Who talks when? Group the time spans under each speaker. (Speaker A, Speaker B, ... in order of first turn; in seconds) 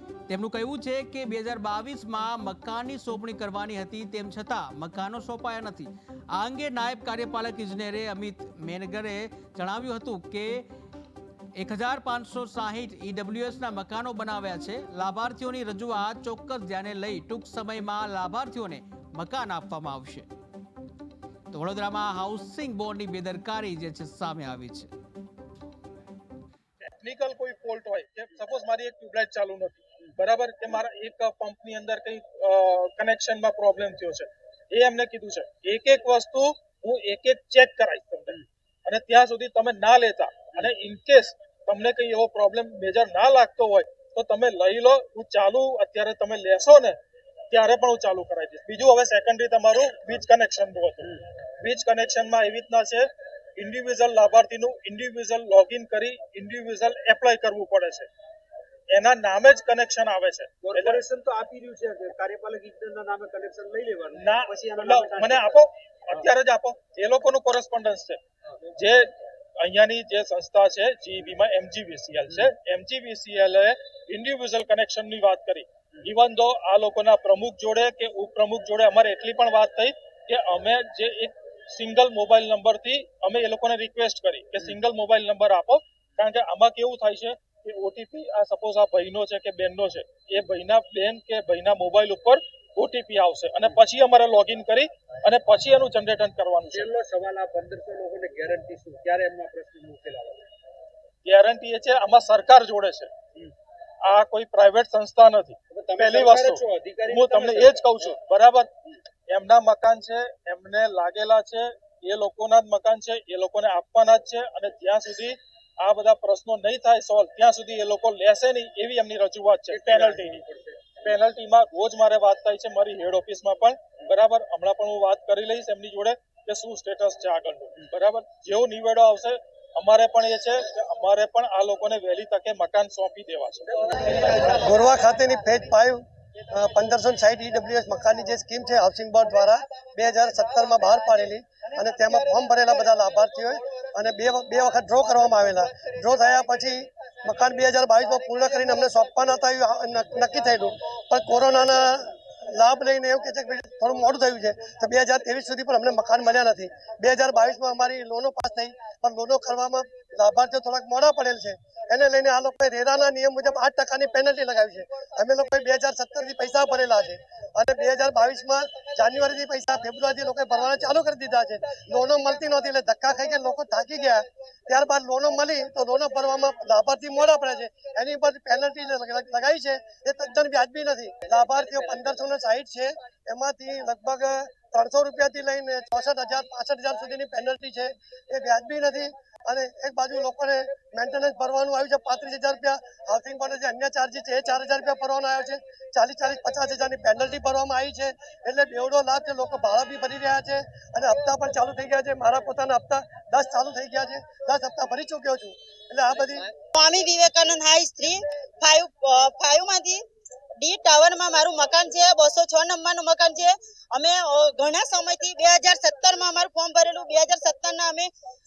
Speaker A: 0.3-10.7, 11.6-20.3, 21.5-24.9
Speaker B: 26.8-47.0, 47.5-58.1, 58.9-61.0, 64.2-68.2, 68.7-96.9, 101.2-103.1, 104.0-108.7, 109.3-120.4, 121.0-133.8
Speaker C: 60.6-65.6, 96.7-100.5, 105.7-108.2, 119.7-121.1
Speaker D: 134.4-206.5
Speaker E: 206.7-210.0, 210.6-218.1